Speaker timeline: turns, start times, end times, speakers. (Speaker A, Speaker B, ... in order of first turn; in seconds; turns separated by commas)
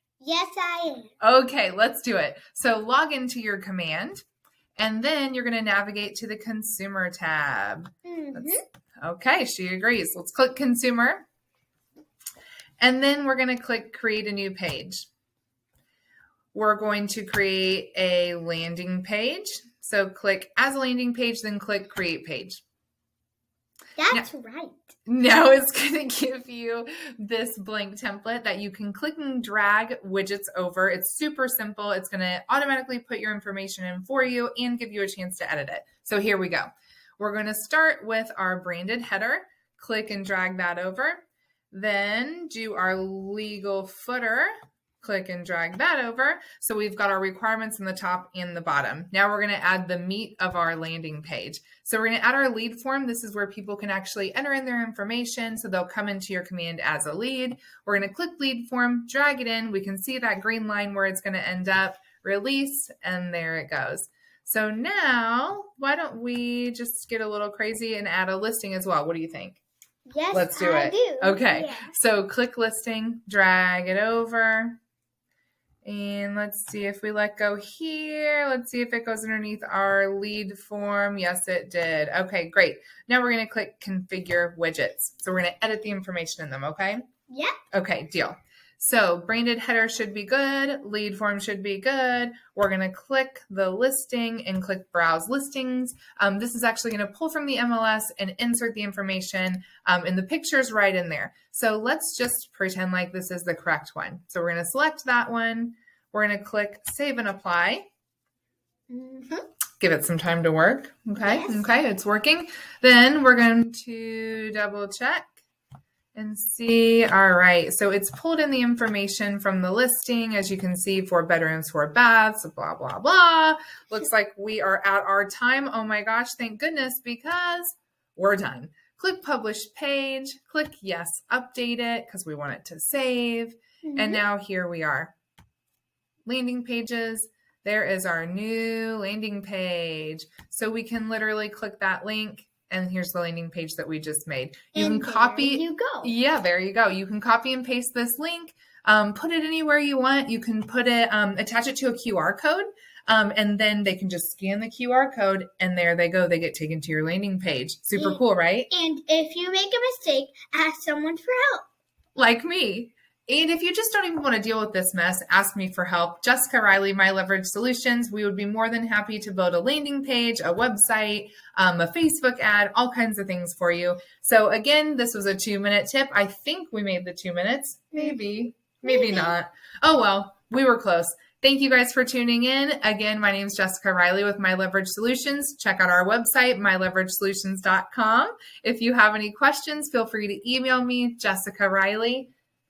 Speaker A: 0.2-1.1, Speaker B: 1.2-4.2, Speaker B: 4.8-11.2, Speaker A: 8.0-8.6, Speaker B: 12.8-15.1, Speaker B: 16.5-22.6, Speaker A: 24.0-24.9, Speaker B: 25.1-69.6, Speaker A: 70.1-71.9, Speaker B: 70.3-74.8, Speaker B: 75.8-87.0, Speaker A: 87.3-87.5, Speaker B: 87.7-107.9, Speaker A: 108.9-109.4, Speaker B: 109.8-115.3, Speaker A: 111.2-111.6, Speaker B: 116.1-135.1, Speaker A: 133.8-134.2, Speaker B: 136.2-158.7, Speaker A: 144.7-146.1, Speaker A: 158.0-161.6, Speaker B: 162.2-192.3, Speaker A: 178.8-179.3